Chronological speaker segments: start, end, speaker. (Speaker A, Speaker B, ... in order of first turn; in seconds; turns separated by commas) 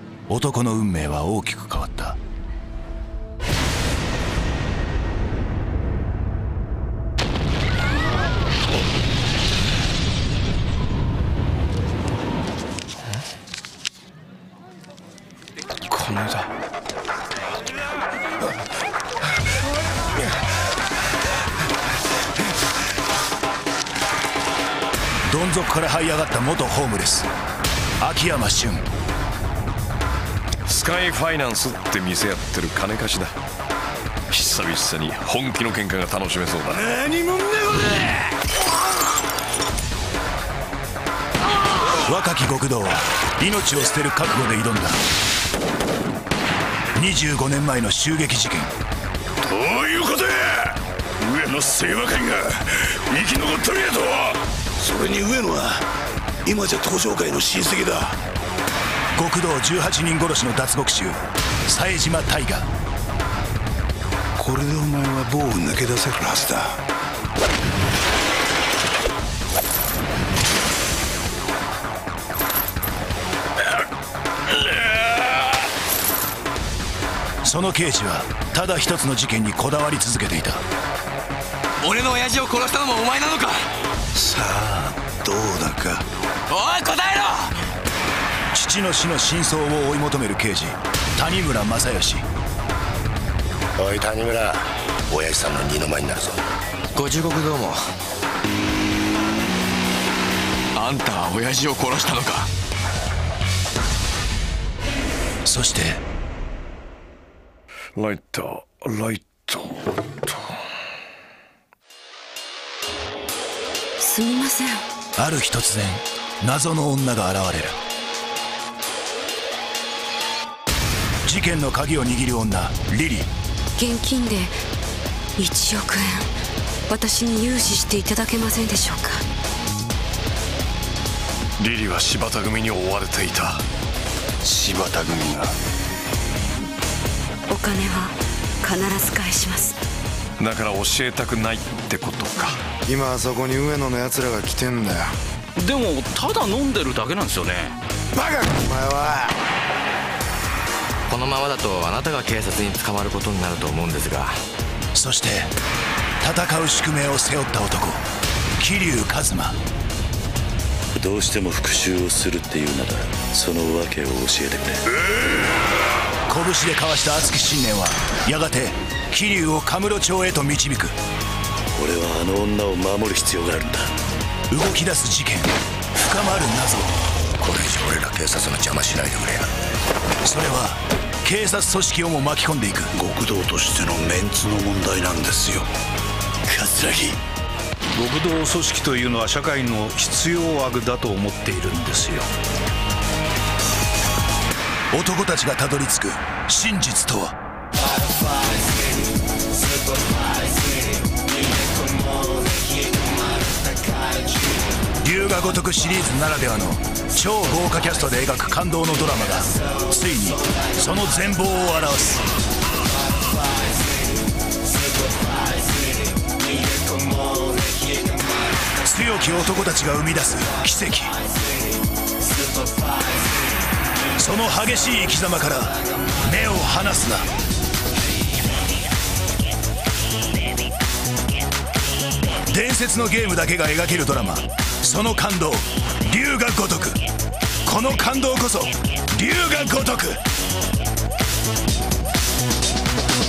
Speaker A: 0.3-2.2, Speaker A: 25.3-27.3, Speaker A: 28.0-28.9, Speaker B: 30.7-33.4, Speaker B: 34.3-37.0, Speaker A: 42.0-45.0, Speaker A: 47.0-48.7, Speaker C: 49.5-55.8, Speaker C: 56.5-58.2, Speaker A: 59.1-62.7, Speaker C: 64.4-66.8, Speaker A: 77.4-80.6, Speaker C: 84.2-86.0, Speaker A: 88.5-92.2, Speaker D: 93.8-96.4, Speaker E: 97.0-97.8, Speaker E: 100.8-102.5, Speaker A: 105.5-106.0, Speaker B: 108.0-110.1, Speaker F: 114.0-114.8, Speaker A: 115.2-117.8, Speaker A: 121.2-123.3, Speaker F: 123.8-124.5, Speaker F: 125.4-126.3, Speaker F: 126.9-129.2, Speaker B: 131.6-133.6, Speaker B: 134.5-135.4, Speaker F: 137.5-139.8, Speaker B: 140.4-142.6, Speaker G: 142.9-145.1, Speaker H: 145.6-147.7, Speaker G: 148.2-149.2, Speaker E: 151.1-154.4, Speaker A: 154.9-155.5, Speaker A: 156.2-158.0, Speaker A: 158.6-159.6, Speaker I: 160.9-164.8, Speaker A: 166.3-170.9, Speaker I: 171.8-173.9, Speaker A: 174.5-176.9, Speaker D: 177.4-179.5, Speaker A: 180.2-182.9, Speaker C: 182.9-185.7, Speaker C: 186.5-187.2, Speaker J: 188.0-192.3, Speaker A: 194.9-197.3, Speaker A: 205.0-212.2, Speaker A: 218.8-221.2, Speaker A: 224.2-227.3, Speaker A: 232.5-237.0, Speaker A: 237.7-240.2